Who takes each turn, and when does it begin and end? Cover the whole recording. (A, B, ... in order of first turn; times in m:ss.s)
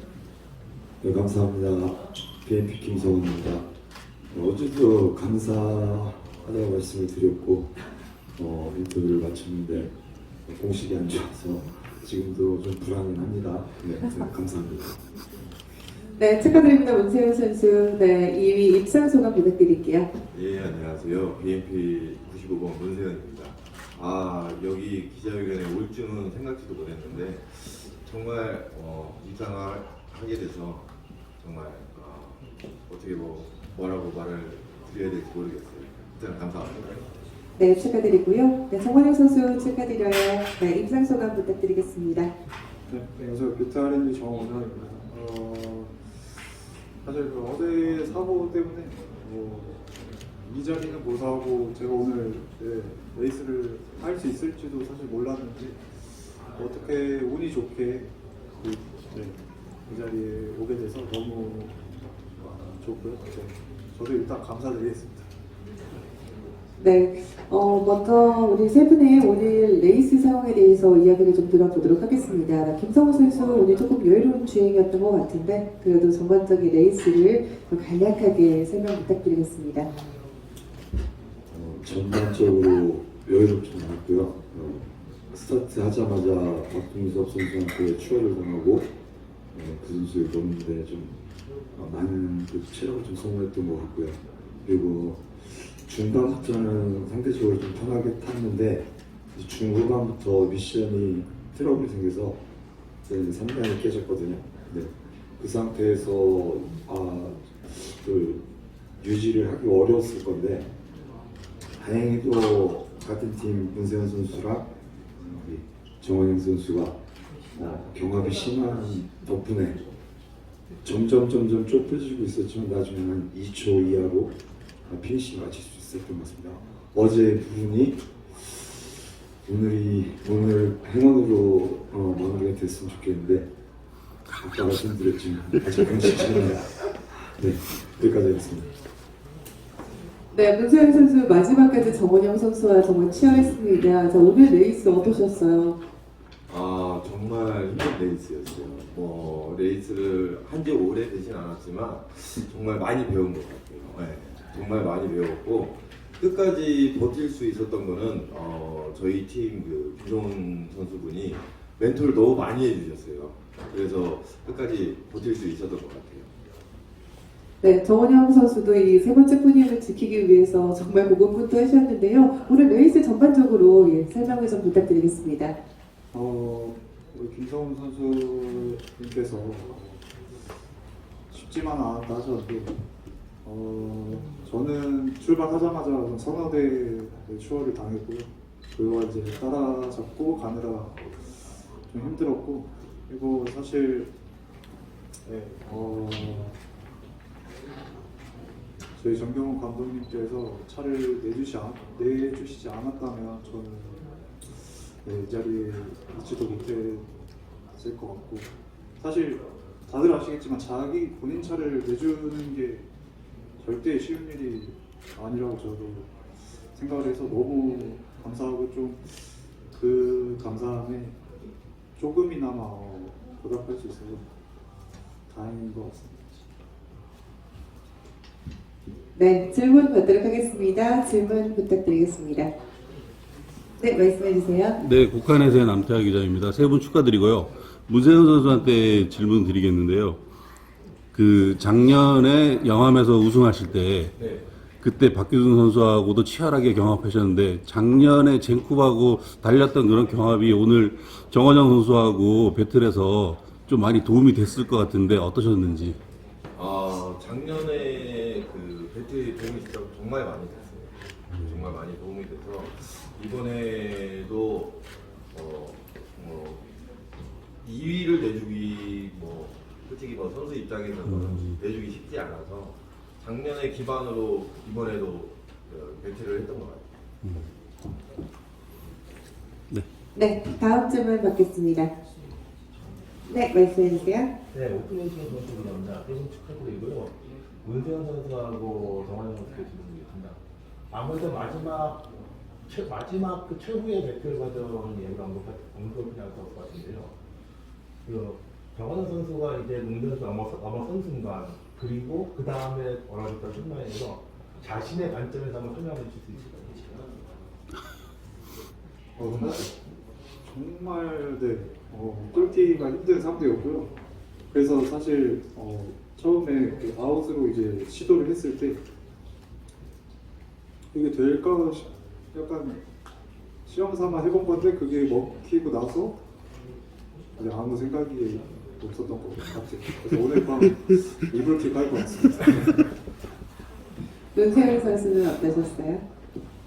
0:01.0-0:03.7 A
0:04.3-0:07.7 A
0:08.4-0:14.9 A
0:16.2-0:20.1 B
0:20.3-0:30.9 C
0:31.4-0:37.0 C
0:37.6-0:42.3 B
0:42.9-0:46.0 D
0:47.0-0:49.8 D
0:50.4-1:01.8 D
1:02.4-1:05.3 D
1:06.8-1:19.9 B
1:21.5-1:28.9 A
1:29.5-1:31.2 A
1:31.7-1:42.4 A
1:43.0-1:48.4 A
1:49.0-1:50.7 A
1:51.8-1:57.0 A
1:57.5-1:59.9 A
2:00.8-2:08.9 A
2:09.4-2:13.5 A
2:14.3-2:18.7 A
2:20.3-2:25.8 B
2:26.5-2:46.3 C
2:47.6-2:55.6 B
2:56.1-3:00.0 D
3:01.3-3:02.8 D
3:03.4-3:14.1 D
3:15.2-3:16.6 D
3:19.0-3:27.1 D
3:27.7-3:32.9 D
3:33.6-3:36.1 D
3:36.7-3:41.2 D
3:42.0-3:44.2 D
3:45.3-3:46.2 D
3:49.1-3:52.5 B
3:53.8-3:54.8 B
3:54.8-4:00.2 E
4:01.1-4:04.2 E
4:04.8-4:16.0 E
4:16.5-4:24.8 C
4:25.3-4:26.6 C
4:27.6-4:36.9 C
4:37.2-4:37.5 E
4:40.1-4:41.9 B
4:43.3-4:44.3 B
4:44.5-4:50.4 F
4:50.9-4:52.1 F
4:52.7-4:57.2 F
4:58.0-5:07.1 F
5:09.2-5:09.7 D
5:09.2-5:09.6 F
5:10.4-5:13.9 D
5:14.5-5:18.8 D
5:20.9-5:22.8 D
5:23.6-5:26.2 D
5:27.4-5:32.9 D
5:34.3-5:36.0 B